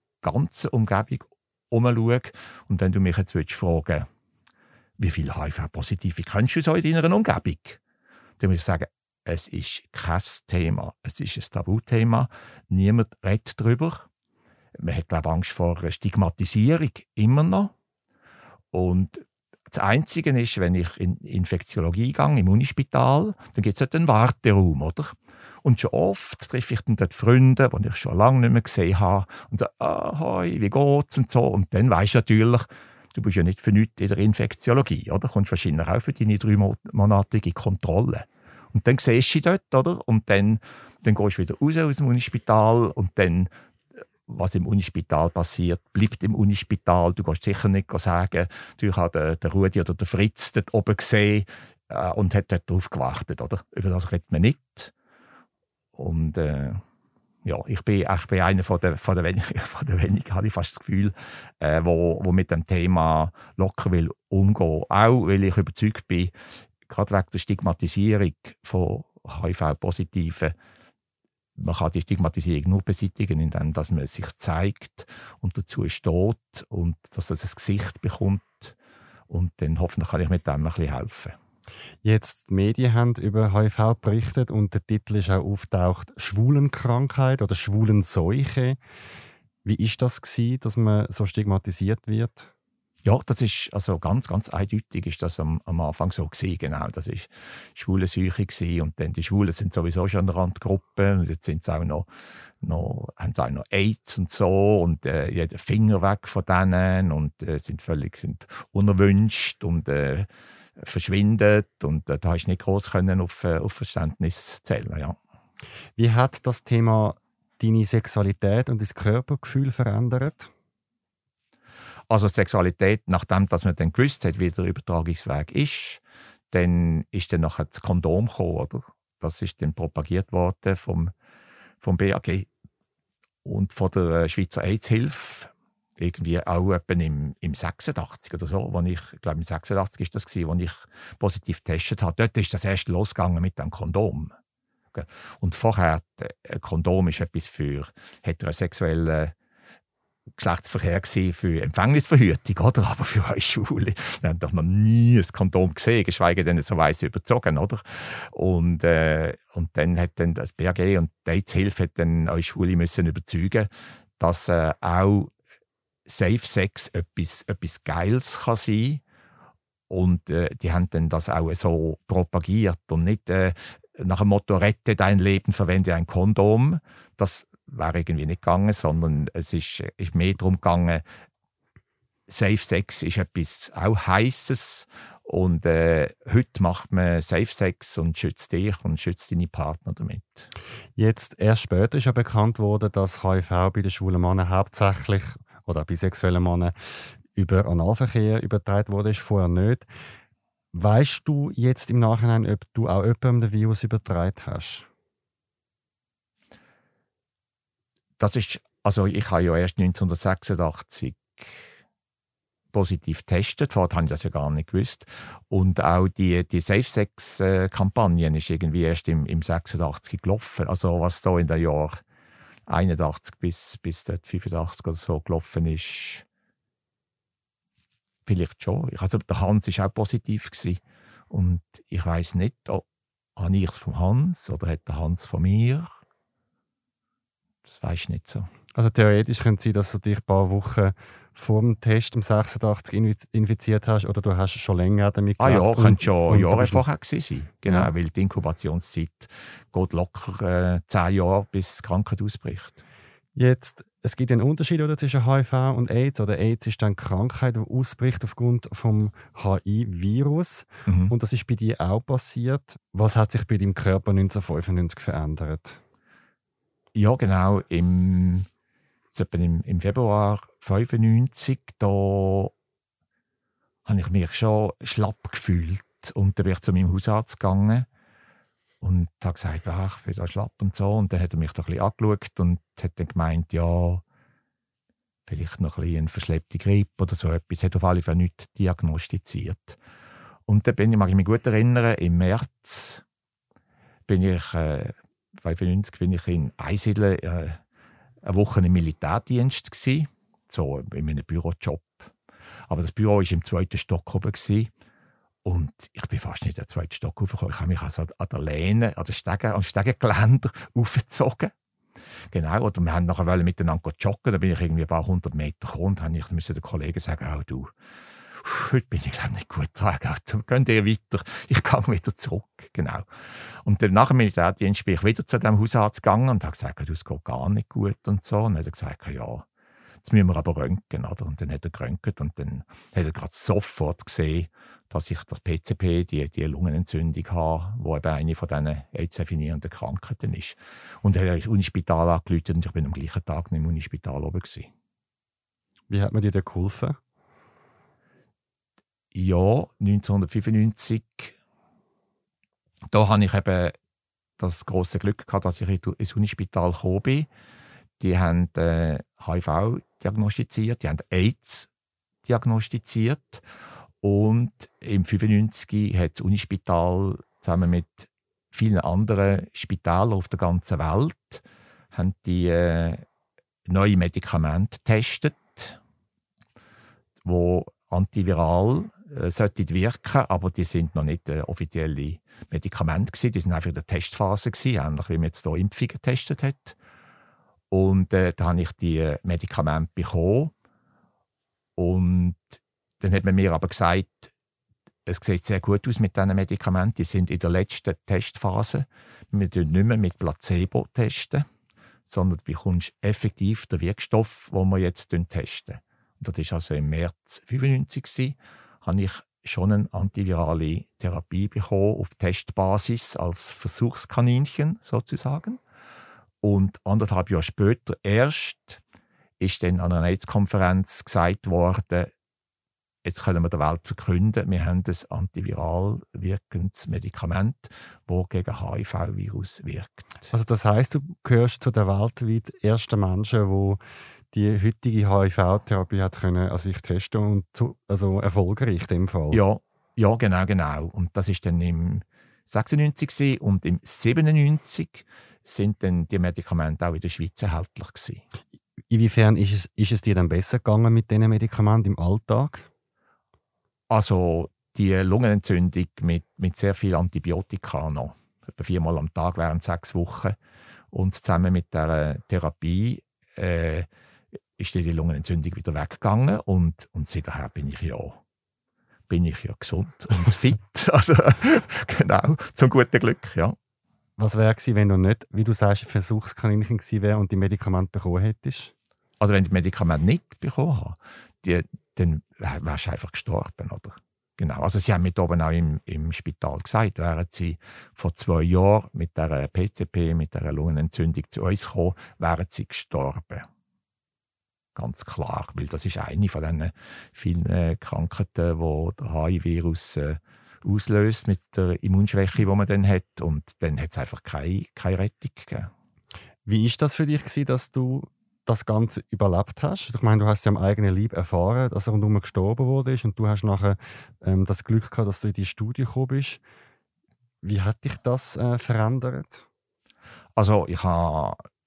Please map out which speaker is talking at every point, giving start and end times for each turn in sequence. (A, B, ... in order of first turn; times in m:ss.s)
0:00.2-0:04.1 A
0:05.0-0:07.8 A
0:08.4-0:14.1 A
0:14.8-0:17.7 A
0:18.7-0:43.5 A
0:44.3-0:54.9 A
0:55.9-0:56.8 A
0:57.4-1:06.3 A
1:06.8-1:10.5 A
1:11.6-1:18.8 A
1:19.3-1:21.4 A
1:22.0-1:28.8 B
1:29.6-1:32.5 B
1:33.0-1:42.1 A
1:42.6-1:55.2 A
1:56.0-2:00.5 B
2:02.1-2:11.1 A
2:11.8-2:12.5 A
2:13.4-2:24.4 A
2:24.9-2:29.3 A
2:30.4-2:45.3 A
2:46.1-2:49.0 A
2:49.9-3:01.0 A
3:02.3-3:10.5 A
3:11.0-3:16.7 B
3:17.3-3:19.9 B
3:20.7-3:24.9 B
3:28.2-3:31.7 A
3:32.7-3:42.0 A
3:42.7-3:46.2 A
3:48.3-3:55.9 A
3:57.7-3:58.5 A
3:58.8-4:06.8 B
4:05.4-4:12.8 A
4:13.4-4:25.8 B
4:20.9-4:21.1 A
4:26.9-4:28.5 A
4:29.1-4:32.5 A
4:33.8-4:37.9 A
4:38.8-4:44.0 A
4:45.3-4:49.8 A
4:50.5-4:53.0 A
4:54.1-4:57.6 A
4:58.2-5:02.1 A
5:02.7-5:04.7 A
5:05.4-5:11.5 A
5:12.3-5:17.7 A
5:18.3-5:23.0 A
5:23.6-5:29.5 A
5:30.0-5:44.7 A
5:45.9-5:47.0 B
5:49.1-5:51.4 A
5:52.9-5:53.8 A
5:54.4-5:57.3 A
5:58.0-6:01.7 A
6:02.2-6:03.4 A
6:04.0-6:13.0 A
6:13.7-6:15.8 A
6:17.2-6:26.8 A
6:27.7-6:30.5 A
6:31.8-6:34.3 A
6:35.1-6:41.5 A
6:42.1-6:55.6 A
6:56.4-6:58.8 A
6:59.4-7:02.1 A
7:03.0-7:10.3 A
7:10.3-7:13.8 B
7:14.3-7:19.4 B
7:19.3-7:28.2 A
7:28.9-7:32.7 B
7:33.9-7:40.4 A
7:40.9-7:43.9 A
7:44.6-7:48.2 A
7:49.1-7:53.6 A
7:54.2-7:58.7 B
7:59.2-8:13.5 A
8:14.8-8:25.7 A
8:26.5-8:36.4 B
8:37.4-8:39.4 B
8:40.4-8:41.4 A